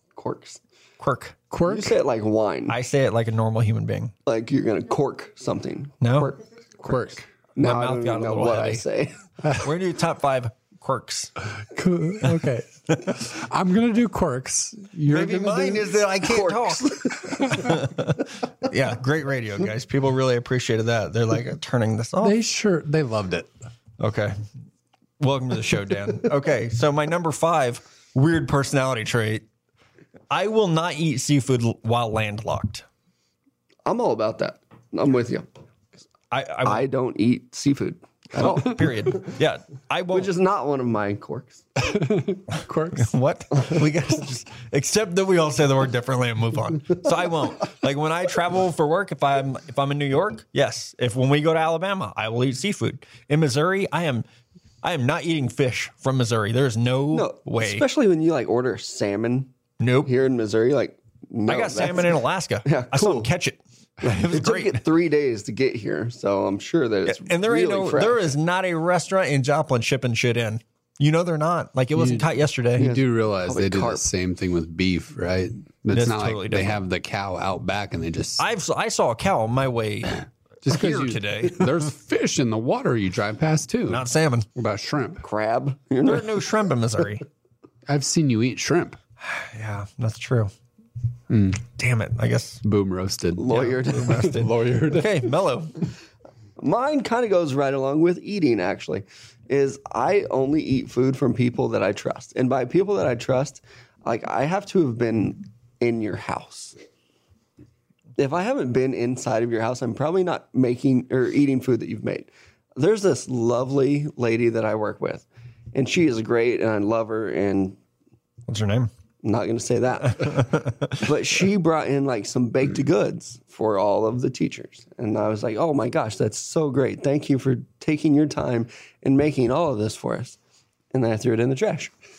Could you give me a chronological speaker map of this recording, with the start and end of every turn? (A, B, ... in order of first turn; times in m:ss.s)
0:00.2-0:00.6 A
0:01.0-0:01.4 B
0:01.5-0:01.9 C
0:01.7-0:02.8 A
0:02.7-0:04.1 B
0:04.3-0:07.0 A
0:06.0-0:06.3 B
0:06.8-0:07.3 C
0:07.6-0:09.2 A
0:07.6-0:08.8 B
0:09.5-0:11.3 B
0:11.7-0:15.9 C
0:15.1-0:22.4 B
0:16.2-0:17.8 A
0:22.2-0:23.5 C
0:24.0-0:24.4 B
0:25.2-0:29.4 B
0:30.3-0:32.8 B
0:33.9-0:35.5 A
0:36.3-0:36.8 B
0:36.6-0:39.3 A
0:38.4-0:40.3 B
0:40.1-0:41.6 A
0:41.8-0:43.1 C
0:42.9-0:54.2 B
0:54.8-0:57.8 B
0:57.1-0:59.5 A
0:59.8-1:00.1 B
1:00.0-1:02.1 A
1:01.5-1:04.8 B
1:02.7-1:03.3 A
1:04.0-1:08.3 A
1:07.1-1:12.9 B
1:12.0-1:18.4 C
1:12.8-1:14.0 A
1:15.9-1:16.8 B
1:18.4-1:21.7 B
1:20.6-1:25.2 C
1:23.9-1:24.5 B
1:25.2-1:26.3 A
1:26.0-1:27.2 B
1:27.9-1:29.0 C
1:29.2-1:30.5 B
1:31.3-1:31.6 C
1:31.6-1:32.6 B
1:32.6-1:35.3 C
1:33.4-1:34.3 A
1:33.5-1:35.7 B
1:36.6-1:46.8 A
1:48.2-1:57.8 A
1:58.5-1:58.9 B
1:59.2-2:10.4 A
2:00.1-2:01.1 B
2:10.9-2:11.9 A